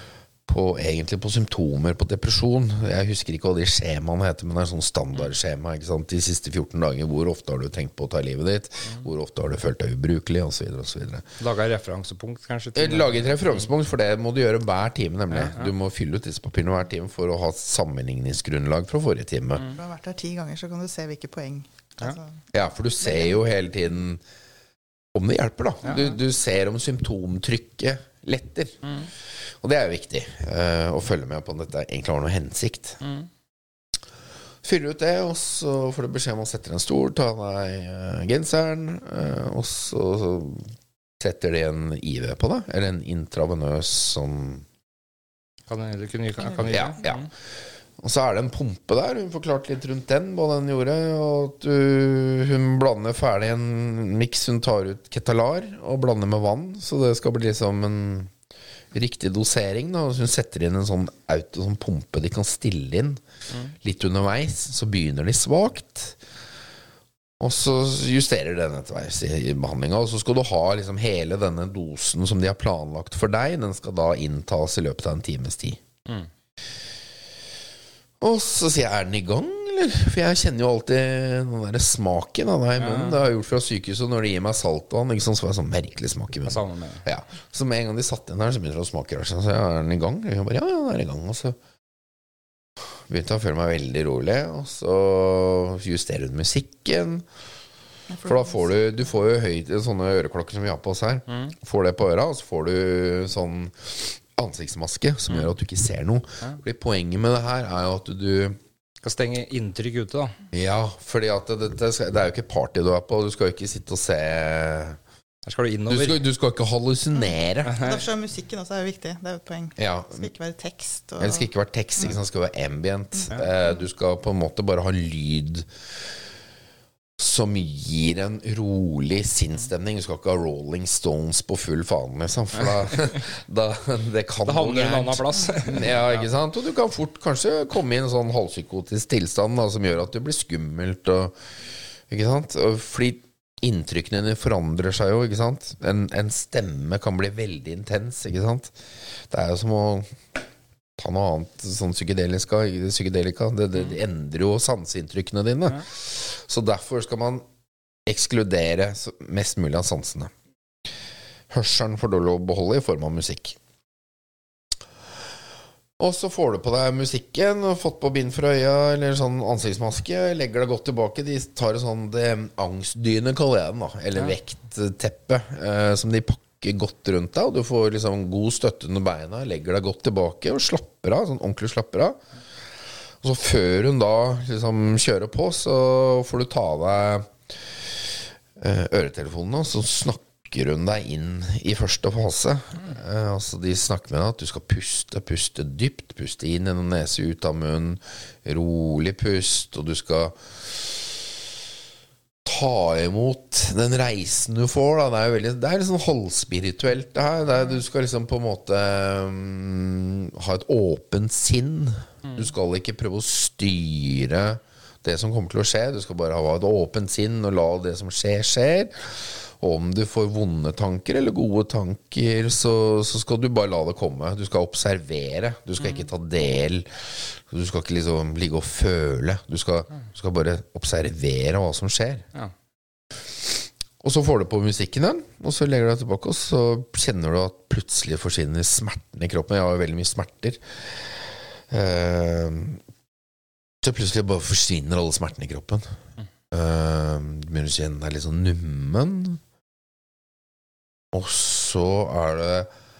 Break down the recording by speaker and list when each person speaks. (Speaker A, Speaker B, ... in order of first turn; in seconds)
Speaker A: 0.5-11.2, 12.7-19.6, 22.5-24.2, 25.1-28.8, 29.6-33.0, 34.6-40.7, 41.2-44.6, 46.7-47.3, 48.0-58.3, 58.9-63.2, 63.8-66.2, 67.4-75.8, 78.2-91.6, 92.8-97.2, 98.2-108.6, 110.5-115.0, 115.9-117.7, 119.8-120.3, 121.2-125.7, 127.2-141.3, 142.1-148.7, 149.3-150.2, 151.0-157.4, 158.1-160.3, 161.5-163.6, 166.0-182.2, 183.2-201.4, 202.4-232.2, 233.4-242.8, 243.8-245.9, 246.5-249.4, 251.1-252.7
Speaker B: 11.4-13.4, 15.3-15.7, 25.8-26.1, 28.8-29.1, 33.0-33.3, 45.7-47.3, 82.8-83.2, 86.5-87.0, 109.0-110.4, 115.5-116.2, 117.7-118.0, 134.4-136.2, 225.8-226.1
Speaker C: 19.7-22.3, 23.1-23.3, 98.1-98.6, 117.8-121.5